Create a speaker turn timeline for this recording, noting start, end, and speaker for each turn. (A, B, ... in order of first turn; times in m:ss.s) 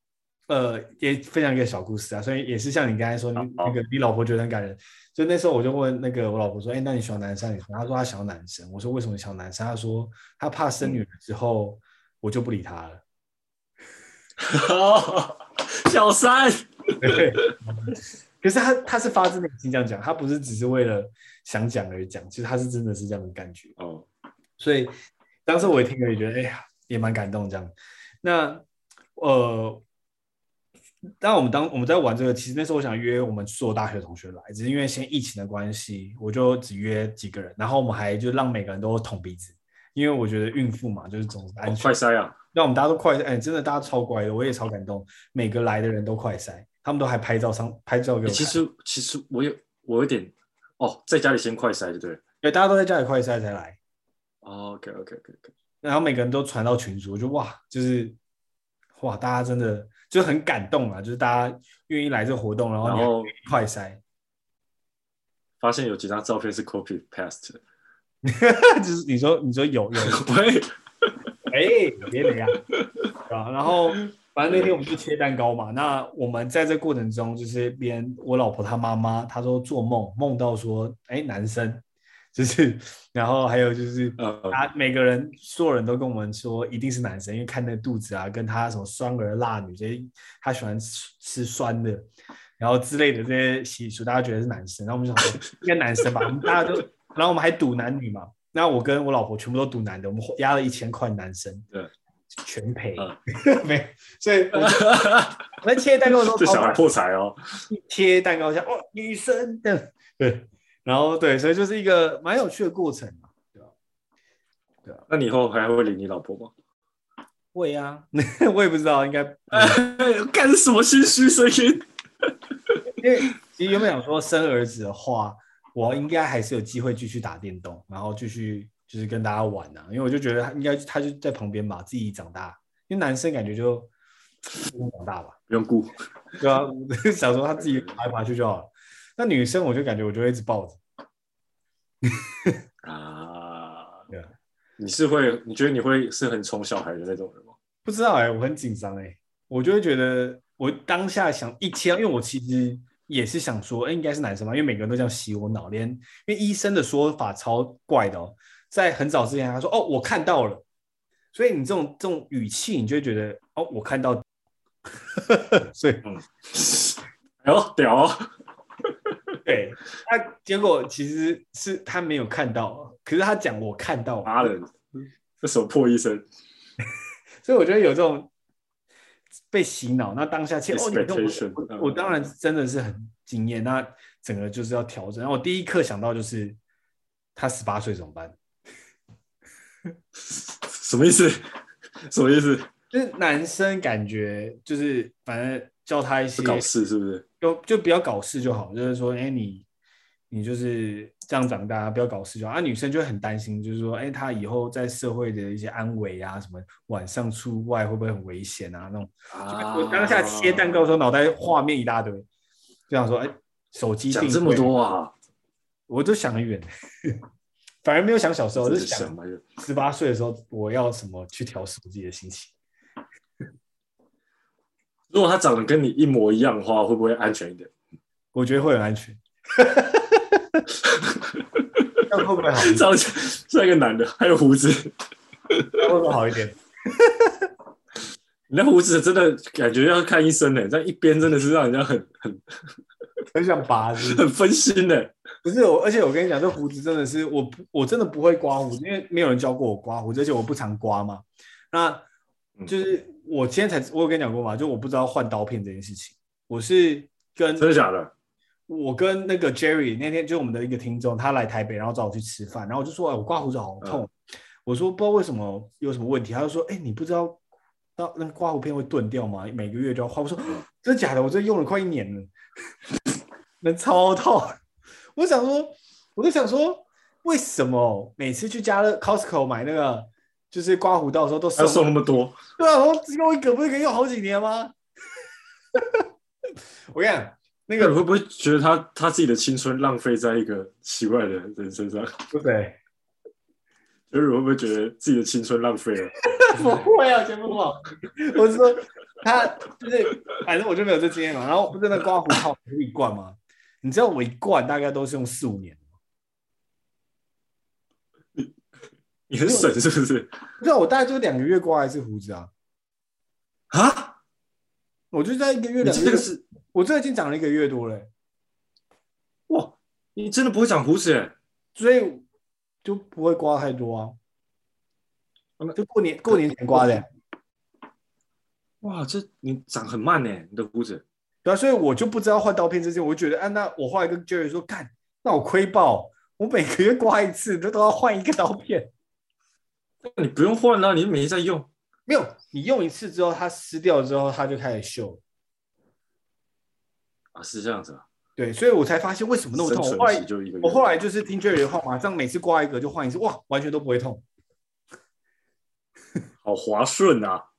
0:00.5-0:13.0 A
0:03.4-0:03.7 B
0:14.4-0:17.4 B
0:17.0-0:23.7 A
0:23.8-0:24.1 B
0:24.6-0:24.9 A
0:25.5-0:28.6 A
0:29.2-0:29.8 A
0:31.2-0:42.0 A
0:41.6-0:42.4 B
0:42.5-0:48.6 A
0:48.3-0:52.2 B
0:52.4-0:53.8 A
0:54.4-0:55.5 B
0:55.8-0:58.2 A
0:59.0-1:04.0 A
1:02.8-1:03.3 B
1:05.6-1:07.6 B
1:08.2-1:10.2 A
1:10.0-1:11.1 B
1:11.5-1:12.6 A
1:13.3-1:21.8 A
1:14.5-1:14.8 B
1:22.4-1:32.1 A
1:24.2-1:24.6 B
1:32.6-1:41.6 A
1:42.4-1:44.9 A
1:44.5-1:45.5 B
1:45.6-1:46.8 A
1:46.1-1:47.6 B
1:47.7-1:53.7 A
1:55.1-1:56.5 B
1:57.5-1:59.8 A
1:59.5-2:01.8 B
2:03.0-2:13.9 A
2:14.6-2:15.4 A
2:15.5-2:16.0 B
2:16.4-2:20.8 A
2:17.6-2:18.0 B
2:22.1-2:22.5 A
2:22.8-2:24.0 B
2:24.8-2:27.6 B
2:27.8-2:40.6 A
2:41.3-2:44.2 A
2:45.2-2:46.0 A
2:46.0-2:48.3 B
2:49.4-2:54.5 A
2:54.2-2:56.2 B
2:57.4-2:58.3 A
2:59.5-3:06.6 A
3:00.7-3:02.0 B
3:07.4-3:08.4 A
3:10.2-3:11.4 B
3:12.0-3:12.7 B
3:12.9-3:16.7 A
3:16.4-3:17.2 B
3:17.4-3:19.7 A
3:20.3-3:32.3 A
3:29.3-3:30.9 B
3:32.9-3:34.7 A
3:34.1-3:35.1 B
3:35.9-3:37.2 A
3:37.8-3:42.5 A
3:38.6-3:39.4 B
3:45.1-3:47.7 B
3:48.3-3:50.6 A
3:50.8-3:52.0 B
3:52.1-3:52.8 A
3:52.6-3:54.9 B
3:55.5-3:55.8 B
3:55.8-3:57.5 A
3:58.5-4:02.6 B
4:03.3-4:04.2 A
4:04.0-4:05.1 B
4:05.4-4:12.1 A
4:12.7-4:17.7 A
4:17.6-4:18.1 B
4:18.7-4:24.1 A
4:24.6-4:27.4 A
4:28.0-4:32.3 A
4:33.6-4:34.6 A
4:35.2-4:41.9 A
4:41.6-4:42.4 B
4:42.6-4:44.7 A
4:45.8-4:46.0 A
4:46.9-4:48.0 A
4:47.8-4:52.2 B
4:52.3-4:52.8 A
4:54.1-4:56.9 B
4:56.4-5:05.8 A
5:09.3-5:10.3 B
5:09.4-5:09.7 A
5:10.6-5:12.5 A
5:13.7-5:14.2 B
5:15.1-5:18.1 A
5:15.8-5:16.4 B
5:19.5-5:21.4 B
5:21.8-5:22.2 A
5:22.8-5:24.2 A
5:25.8-5:27.1 A
5:26.7-5:27.0 B
5:28.8-5:31.0 B
5:31.4-5:38.9 A
5:40.0-5:41.7 B
5:42.1-5:45.2 A
5:47.4-5:48.0 B
5:48.4-5:54.2 A
5:49.6-5:50.9 B
5:56.4-5:57.4 B